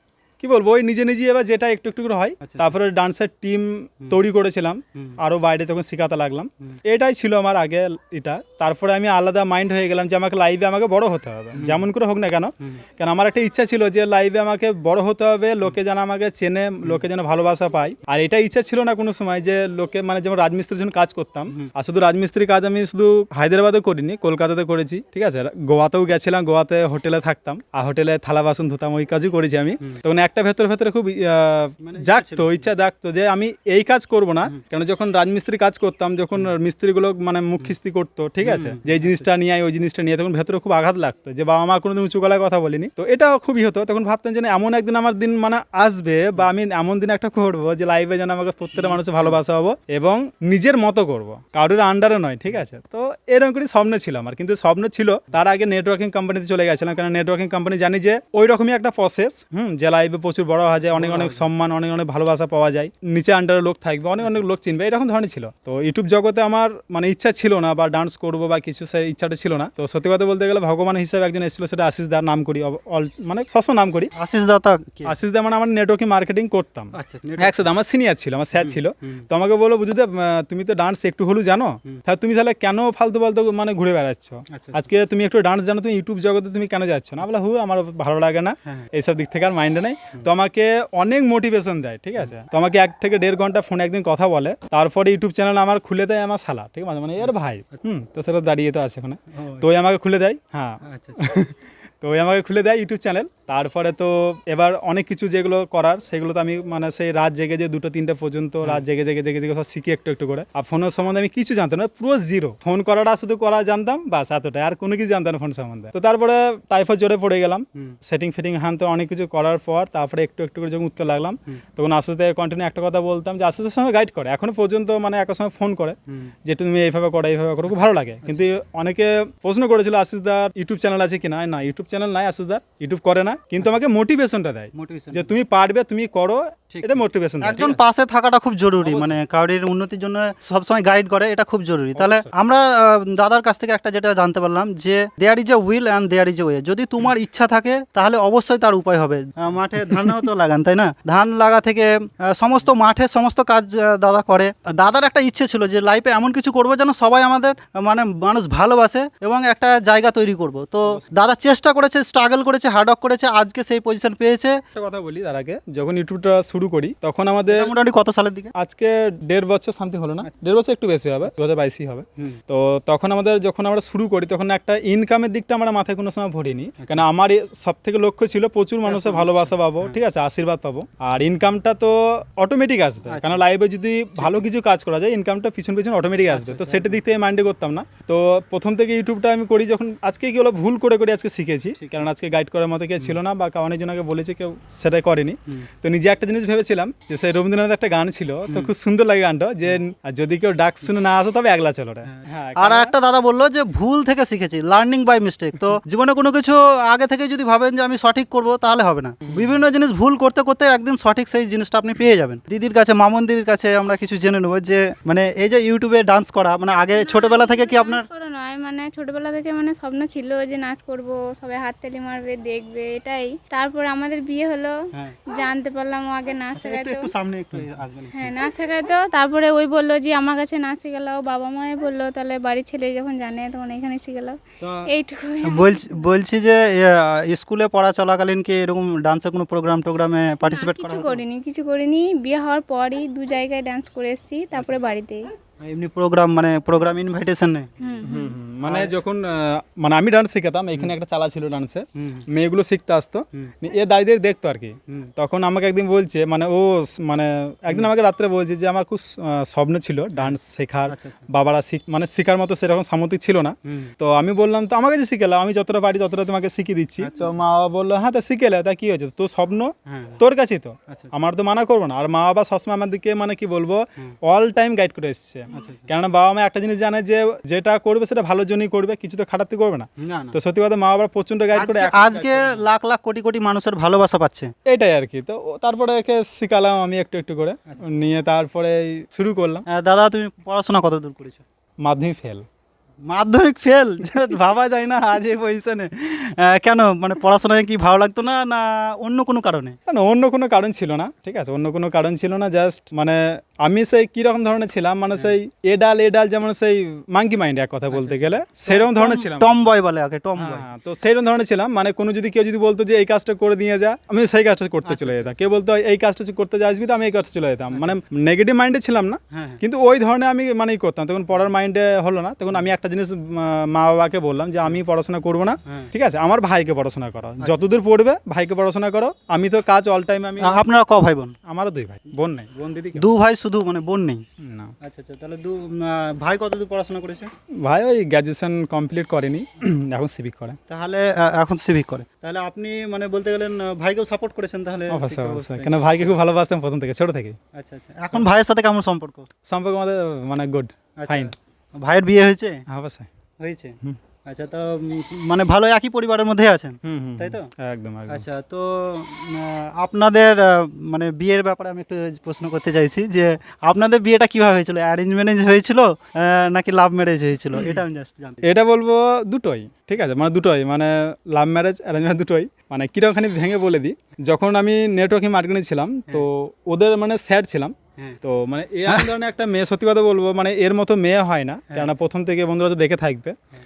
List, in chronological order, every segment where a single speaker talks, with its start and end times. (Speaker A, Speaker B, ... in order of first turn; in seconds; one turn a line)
Speaker A: 0.4-74.1
Speaker B: 2.4-2.7
Speaker B: 11.6-11.8
Speaker B: 31.8-32.7
Speaker B: 38.4-39.3
Speaker B: 48.8-49.4
Speaker B: 60.9-61.5
Speaker B: 74.1-75.1
Speaker A: 75.1-137.8
Speaker B: 77.0-77.7
Speaker B: 78.6-79.2
Speaker B: 84.5-84.8
Speaker B: 97.2-97.8
Speaker B: 99.3-99.7
Speaker B: 100.8-101.2
Speaker B: 127.7-128.5
Speaker B: 134.7-135.3
Speaker B: 136.7-164.6
Speaker A: 138.8-139.2
Speaker A: 142.0-142.3
Speaker A: 149.8-150.1
Speaker A: 164.7-167.7
Speaker B: 167.5-168.5
Speaker A: 168.6-202.9
Speaker B: 176.8-177.1
Speaker B: 178.8-180.0
Speaker B: 183.1-183.4
Speaker B: 184.2-184.5
Speaker B: 186.3-187.0
Speaker B: 191.8-192.1
Speaker B: 202.1-218.1
Speaker C: 217.0-224.8
Speaker C: 225.3-227.1
Speaker B: 226.6-228.4
Speaker C: 228.1-236.1
Speaker B: 234.6-234.9
Speaker B: 235.4-241.2
Speaker C: 240.4-245.2
Speaker B: 244.6-244.8
Speaker B: 245.6-247.7
Speaker C: 247.8-248.3
Speaker A: 248.0-282.6
Speaker B: 248.7-248.9
Speaker B: 252.0-252.3
Speaker B: 260.9-261.2
Speaker B: 263.7-263.9
Speaker B: 267.0-267.4
Speaker B: 269.9-270.2
Speaker B: 275.5-275.8
Speaker B: 280.0-280.4
Speaker B: 281.5-284.5
Speaker A: 284.7-289.6
Speaker B: 289.7-291.4
Speaker A: 291.8-292.4
Speaker B: 293.1-299.8
Speaker A: 299.9-309.5
Speaker B: 307.9-310.7
Speaker A: 310.4-330.6
Speaker B: 314.8-315.4
Speaker B: 317.7-318.0
Speaker B: 319.3-319.6
Speaker B: 327.4-327.7
Speaker B: 330.4-331.4
Speaker A: 331.5-333.1
Speaker B: 332.9-334.2
Speaker A: 334.4-334.8
Speaker B: 334.8-337.3
Speaker A: 337.6-340.6
Speaker B: 340.7-346.2
Speaker A: 344.9-347.4
Speaker B: 347.5-349.3
Speaker A: 349.5-351.3
Speaker B: 351.0-352.6
Speaker A: 352.7-353.1
Speaker B: 353.4-357.5
Speaker A: 356.9-358.2
Speaker B: 358.1-368.5
Speaker A: 368.4-383.4
Speaker B: 378.9-379.1